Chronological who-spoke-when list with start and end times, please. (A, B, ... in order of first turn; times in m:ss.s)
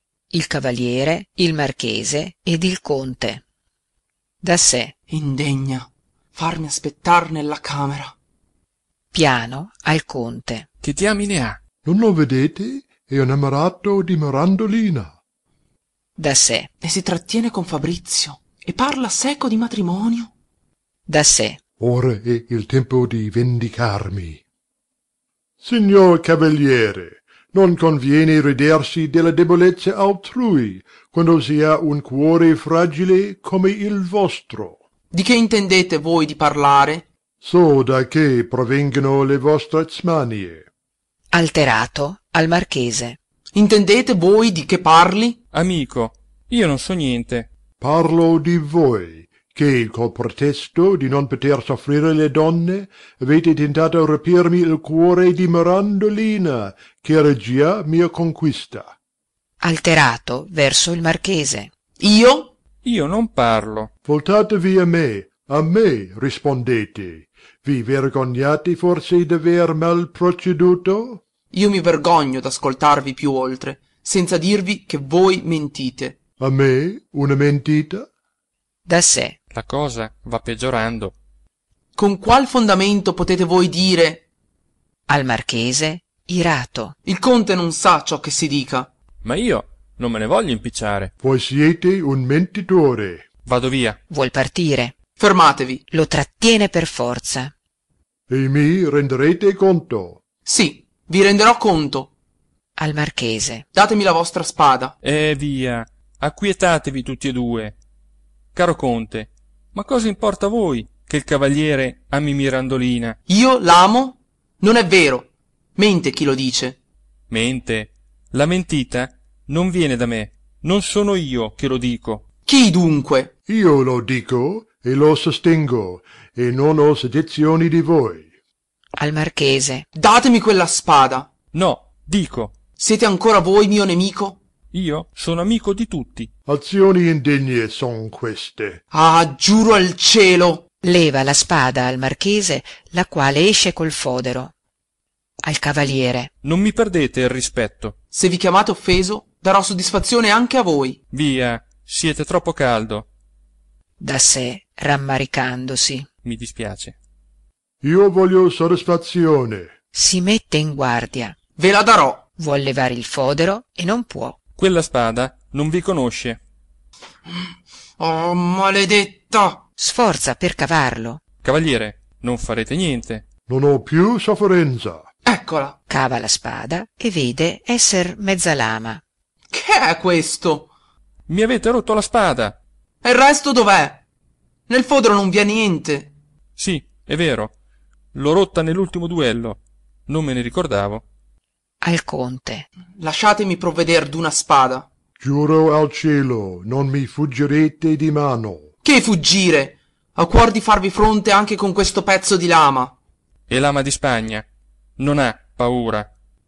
0:00.3-0:03.4 A
0:04.4-0:04.9 A
0:05.1-0:08.2 B
0:09.1-0:10.7 A
0:10.8-0:11.6 C
0:11.8-0:15.2 D
0:16.2-0:16.7 A
0:16.8-0:20.3 B
0:21.1-0:21.6 A
0:21.8-0:24.4 D
0:25.6-0:34.8 D
0:35.1-0:37.1 B
0:37.4-0:40.7 D
0:41.3-0:43.2 A
0:43.6-0:45.4 B
0:45.5-0:47.5 C
0:47.8-0:58.9 D
0:59.6-1:01.7 A
1:02.0-1:02.5 B
1:02.8-1:03.9 C
1:04.0-1:11.2 D
1:11.5-1:16.2 B
1:16.4-1:18.1 D
1:18.9-1:19.4 A
1:19.5-1:21.2 C
1:22.0-1:24.2 B
1:25.1-1:27.0 A
1:27.0-1:28.9 B
1:29.2-1:31.1 C
1:31.2-1:33.3 D
1:33.4-1:34.0 C
1:34.1-1:35.0 A
1:35.2-1:35.8 B
1:35.9-1:37.5 A
1:38.3-1:40.2 D
1:40.5-1:42.1 B
1:42.8-1:43.7 A
1:43.7-1:44.9 B
1:45.0-1:47.8 C
1:48.5-1:53.2 C
1:53.3-1:56.8 B
1:57.3-2:02.2 C
2:02.5-2:03.3 B
2:03.5-2:08.3 D
2:09.0-2:09.9 A
2:10.0-2:11.3 B
2:11.5-2:12.6 C
2:12.8-2:14.4 B
2:14.7-2:16.3 C
2:16.5-2:18.8 D
2:18.9-2:20.6 B
2:20.8-2:24.5 A
2:25.4-2:26.3 A
2:26.4-2:28.0 C
2:28.1-2:31.0 B
2:31.1-2:33.1 C
2:34.0-2:36.1 A
2:36.2-2:37.0 C
2:37.8-2:39.7 D
2:39.9-2:41.4 A
2:41.6-2:42.2 B
2:42.4-2:44.4 A
2:44.6-2:46.4 C
2:47.3-2:49.6 B
2:49.8-2:51.2 A
2:51.4-2:53.2 C
2:53.5-2:55.1 D
2:55.3-2:55.8 B
2:55.9-2:59.0 A
2:59.5-3:00.7 B
3:01.3-3:02.6 C
3:03.0-3:04.0 B
3:04.7-3:06.1 B
3:06.6-3:07.5 C
3:08.1-3:11.0 C
3:11.8-3:12.7 A
3:13.0-3:14.9 B
3:15.2-3:18.7 D
3:18.8-3:23.0 B
3:23.5-3:24.4 C
3:25.0-3:26.1 C